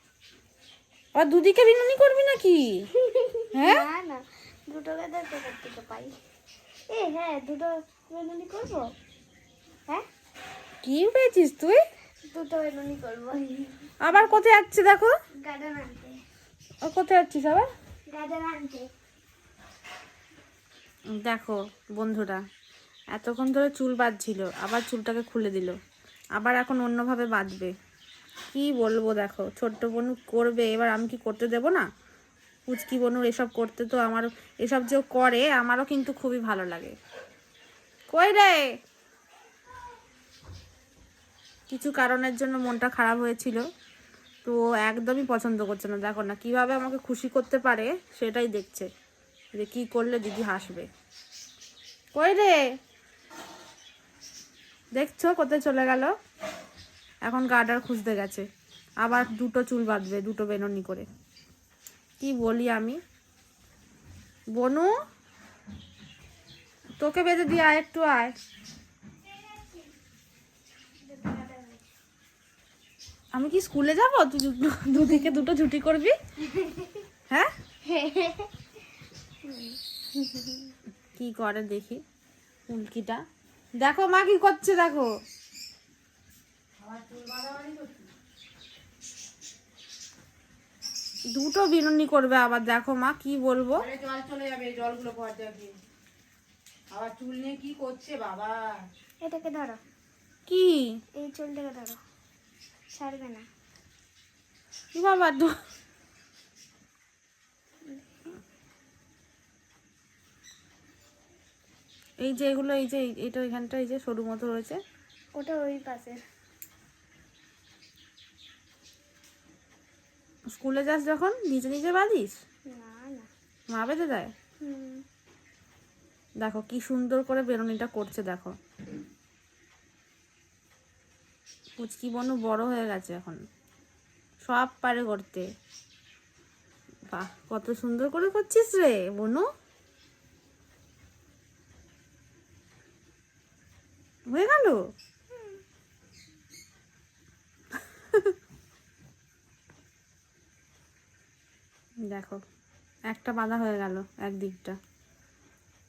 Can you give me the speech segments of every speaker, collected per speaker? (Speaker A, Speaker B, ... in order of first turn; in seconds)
Speaker A: 1.1-2.9, 3.5-3.9, 10.8-11.8, 14.0-15.1, 16.8-17.7, 21.2-22.4, 23.1-25.8, 26.3-27.7, 28.5-31.9, 32.7-37.0, 38.1-38.6, 41.7-43.6, 44.4-48.9, 49.5-50.9, 52.1-52.6, 55.0-56.1, 57.2-58.5, 59.0-61.0, 62.2-63.0, 64.5-64.9, 67.0-68.3, 73.3-76.2, 81.2-82.0, 82.7-83.2, 83.8-85.1, 91.3-93.8, 100.5-100.8, 104.9-105.5, 112.2-114.8, 120.5-122.3, 123.7-124.3, 126.4-128.6, 131.8-133.4, 134.4-135.4, 137.1-139.5, 144.3-144.8, 147.9-148.3, 152.1-152.4, 153.1-154.8
Speaker B: 3.0-6.1, 6.9-8.9, 12.3-14.2, 15.4-16.2, 18.1-18.9, 69.2-69.9, 71.0-71.8, 76.5-77.0, 77.8-78.5, 79.4-80.7, 99.2-99.8, 101.2-102.0, 102.9-103.5, 107.9-108.3, 115.3-116.2, 122.7-123.3, 124.6-125.0, 145.3-145.6
Speaker C: 86.8-88.1, 93.8-95.7, 96.9-98.5